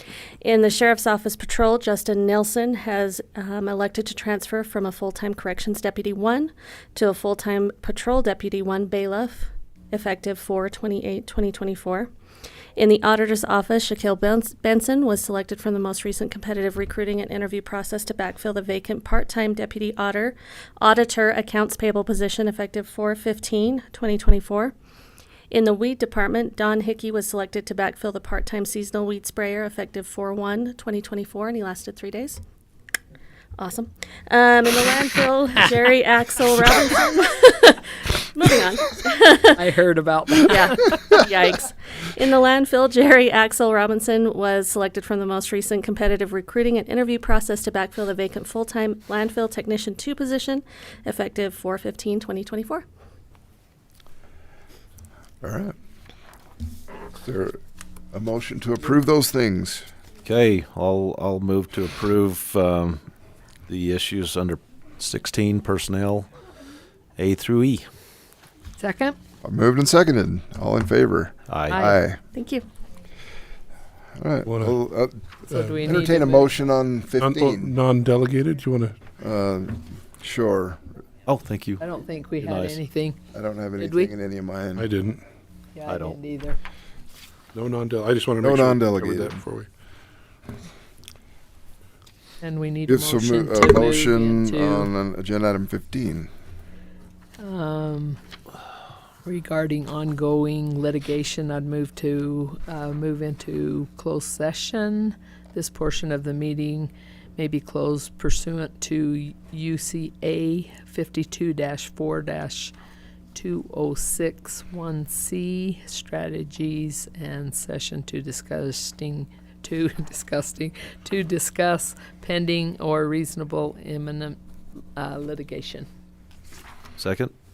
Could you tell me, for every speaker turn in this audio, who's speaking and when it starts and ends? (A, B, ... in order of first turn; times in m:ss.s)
0:00.4-0:12.1 A
0:12.8-0:24.7 A
0:25.5-0:32.4 A
0:33.6-0:39.6 A
0:39.5-0:41.0 B
0:40.5-0:52.8 A
0:55.4-0:55.7 C
0:57.2-0:57.6 C
0:58.1-0:59.9 C
1:00.2-1:03.0 D
1:03.7-1:06.3 D
1:07.2-1:07.8 D
1:08.8-1:09.2 B
1:09.4-1:12.2 C
1:11.5-1:11.8 D
1:11.7-1:12.0 B
1:12.3-1:12.6 A
1:14.2-1:15.2 C
1:14.4-1:14.8 E
1:15.5-1:16.5 B
1:15.5-1:15.8 E
1:15.8-1:17.7 C
1:17.2-1:19.0 E
1:19.2-1:20.8 C
1:21.2-1:21.8 D
1:21.8-1:23.2 B
1:22.4-1:22.8 D
1:23.3-1:24.9 C
1:23.8-1:24.1 B
1:24.8-1:25.2 E
1:25.7-1:26.6 B
1:25.9-1:26.2 D
1:27.5-1:29.7 E
1:28.4-1:29.4 C
1:32.4-1:34.9 B
1:32.9-1:36.3 C
1:37.4-1:38.2 B
1:39.2-1:52.7 B
1:53.3-2:04.4 B
2:05.0-2:05.9 B
2:07.0-2:07.3 D